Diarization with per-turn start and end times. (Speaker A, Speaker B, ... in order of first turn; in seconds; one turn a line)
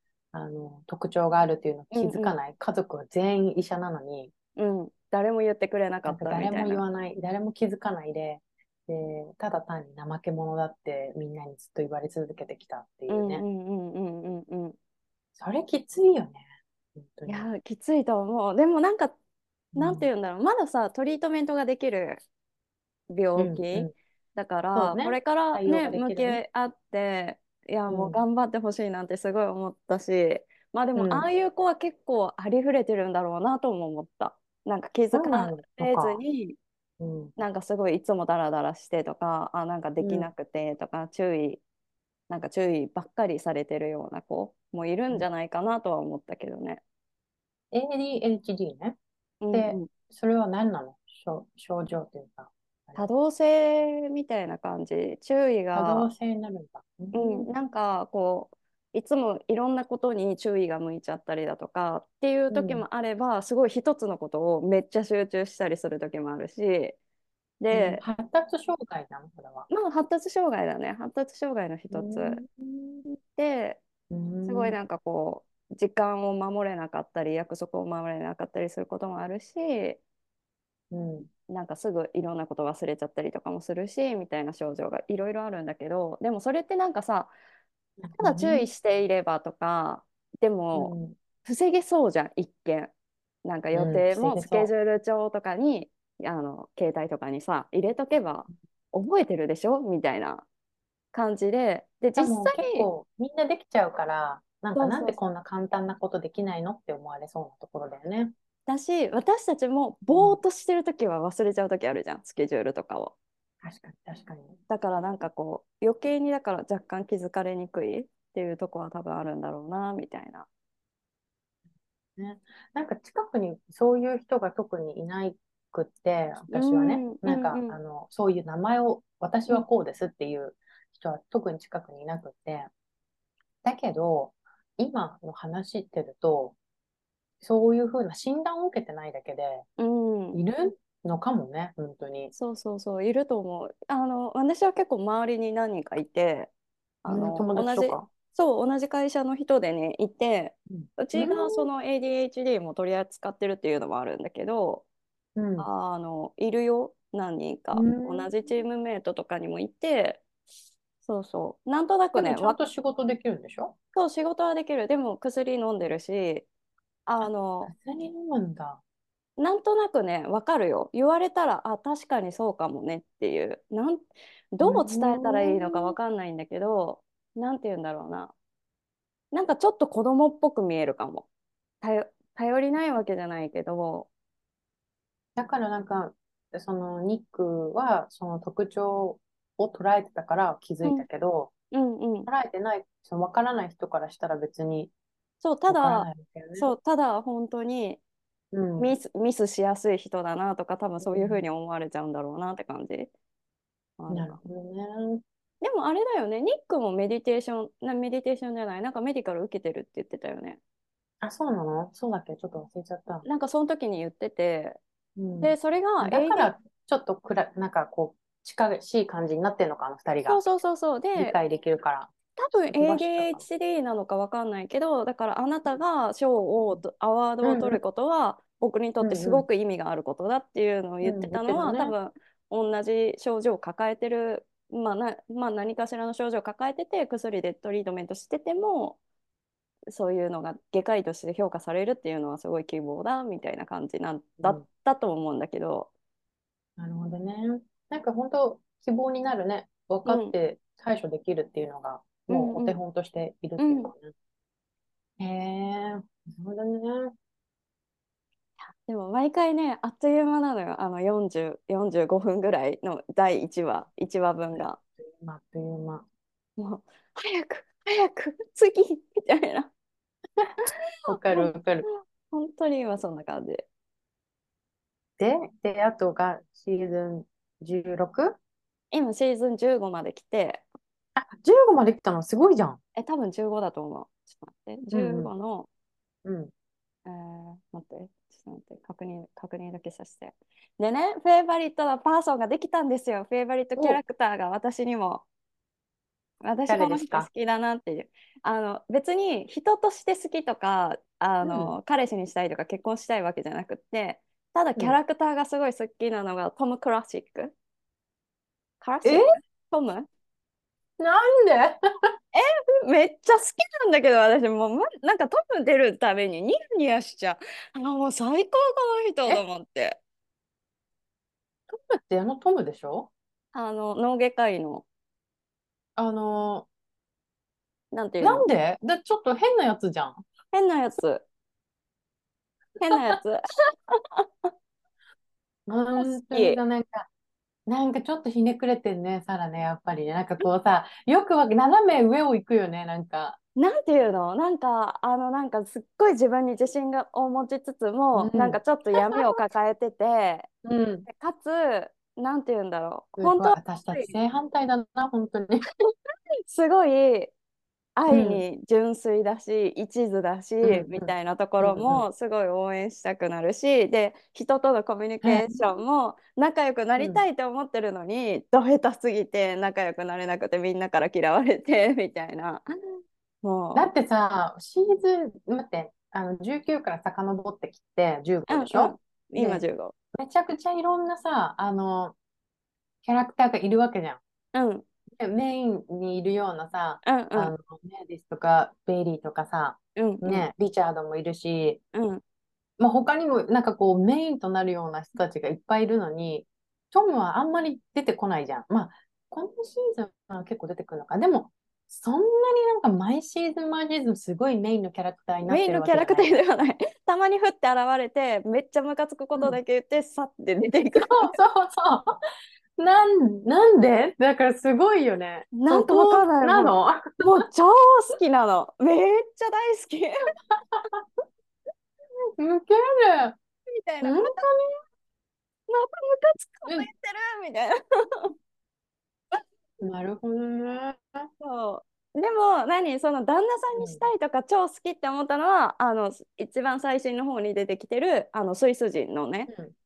Speaker A: 0.3-4.3
Speaker B: 1.9-2.3
Speaker B: 4.6-6.8
Speaker A: 6.0-13.4
Speaker B: 13.1-14.8
Speaker A: 15.4-16.4
Speaker A: 16.9-17.5
Speaker B: 17.3-19.1
Speaker A: 19.7-20.1
Speaker B: 19.8-22.2
Speaker B: 23.1-36.6
Speaker A: 23.4-23.9
Speaker A: 24.7-26.4
Speaker A: 27.9-28.2
Speaker A: 30.9-31.3
Speaker A: 35.1-36.2
Speaker A: 37.0-37.3
Speaker B: 37.4-41.6
Speaker A: 40.0-40.3
Speaker B: 42.3-46.8
Speaker A: 47.7-49.0
Speaker B: 49.4-49.9
Speaker A: 49.5-53.1
Speaker B: 53.0-56.1
Speaker A: 55.7-57.5
Speaker B: 57.1-67.0
Speaker A: 62.5-62.8
Speaker B: 67.6-68.0
Speaker A: 67.7-69.7
Speaker B: 69.7-72.4
Speaker A: 71.9-73.0
Speaker B: 73.1-73.8
Speaker A: 74.1-74.7
Speaker B: 74.4-80.0
Speaker A: 80.9-81.3
Speaker B: 81.5-87.3
Speaker A: 88.0-88.7
Speaker B: 88.2-92.9
Speaker A: 90.7-91.2
Speaker B: 93.4-100.5
Speaker A: 93.7-94.7
Speaker B: 101.1-102.9
Speaker A: 102.2-108.3
Speaker B: 104.8-105.2
Speaker B: 108.7-113.1
Speaker A: 110.1-110.4
Speaker A: 113.6-114.5
Speaker B: 114.7-120.5
Speaker A: 122.2-132.7
Speaker B: 126.5-127.8
Speaker A: 133.6-136.6
Speaker A: 137.4-139.7
Speaker B: 139.8-140.4
Speaker A: 140.3-142.3
Speaker B: 142.3-146.5
Speaker B: 147.0-154.8
Speaker A: 147.1-148.1
Speaker A: 150.7-151.7
Speaker A: 155.3-155.7
Speaker B: 155.6-160.2
Speaker A: 157.7-158.3
Speaker B: 161.1-162.6
Speaker A: 162.1-163.7
Speaker B: 163.9-166.5
Speaker B: 167.1-167.7
Speaker A: 167.2-168.8
Speaker B: 169.4-178.3
Speaker A: 174.6-175.9
Speaker B: 179.3-181.2
Speaker B: 181.8-184.1
Speaker A: 185.3-191.5
Speaker B: 191.7-192.3
Speaker A: 192.3-194.9
Speaker B: 195.4-198.0
Speaker A: 195.7-196.7
Speaker A: 198.5-198.9
Speaker B: 198.8-203.1
Speaker A: 201.0-201.4
Speaker B: 204.0-204.4
Speaker A: 204.1-205.2
Speaker B: 205.6-210.6
Speaker A: 211.2-213.2
Speaker B: 213.2-214.8
Speaker A: 215.2-220.4
Speaker B: 215.4-216.5
Speaker B: 220.2-221.3
Speaker A: 221.2-222.1
Speaker B: 222.4-239.0
Speaker A: 222.7-223.4
Speaker A: 227.4-227.8
Speaker A: 229.0-229.4
Speaker A: 231.0-231.9
Speaker B: 239.9-245.9
Speaker A: 246.8-254.1
Speaker B: 250.1-250.3
Speaker B: 252.3-252.8
Speaker B: 253.6-253.9
Speaker A: 255.2-257.1
Speaker B: 258.8-264.8
Speaker A: 264.5-266.1
Speaker B: 266.6-269.7
Speaker A: 271.1-271.9
Speaker B: 271.2-273.6
Speaker A: 275.2-278.4
Speaker B: 278.9-280.6
Speaker A: 281.1-282.8
Speaker B: 282.9-285.7
Speaker A: 284.9-285.3
Speaker A: 286.2-286.5
Speaker B: 287.0-295.2
Speaker B: 296.4-307.5
Speaker A: 296.7-297.3
Speaker A: 301.4-301.8
Speaker B: 308.8-310.1
Speaker A: 311.0-311.8
Speaker B: 312.3-320.0
Speaker A: 321.7-323.1
Speaker B: 323.5-324.8
Speaker A: 326.0-326.7
Speaker B: 327.9-328.4
Speaker A: 328.2-330.2
Speaker B: 330.5-331.2
Speaker B: 332.8-333.4
Speaker B: 333.9-334.5
Speaker A: 335.7-337.1
Speaker B: 335.9-336.6
Speaker A: 337.7-343.4
Speaker B: 343.6-350.5
Speaker A: 348.1-349.3
Speaker A: 350.6-351.1
Speaker B: 351.1-354.1
Speaker A: 353.2-355.6
Speaker B: 356.5-357.3
Speaker B: 357.9-372.6
Speaker A: 358.1-358.4
Speaker A: 360.6-362.0
Speaker A: 365.2-365.6
Speaker A: 367.0-367.2
Speaker B: 373.4-373.9
Speaker A: 373.7-379.6
Speaker B: 378.5-379.9
Speaker A: 380.1-382.1
Speaker A: 383.0-384.2
Speaker B: 384.5-384.8
Speaker A: 385.2-391.8
Speaker B: 387.0-387.5
Speaker B: 389.9-390.5
Speaker B: 391.9-392.2
Speaker A: 392.8-406.4
Speaker B: 405.4-411.3
Speaker A: 411.1-412.1
Speaker A: 412.8-417.4
Speaker B: 415.5-420.1
Speaker A: 420.7-421.1
Speaker A: 422.4-423.4
Speaker B: 423.6-424.5
Speaker A: 424.0-424.6
Speaker B: 425.7-428.3
Speaker A: 429.8-431.3
Speaker B: 431.4-439.5
Speaker A: 433.8-434.1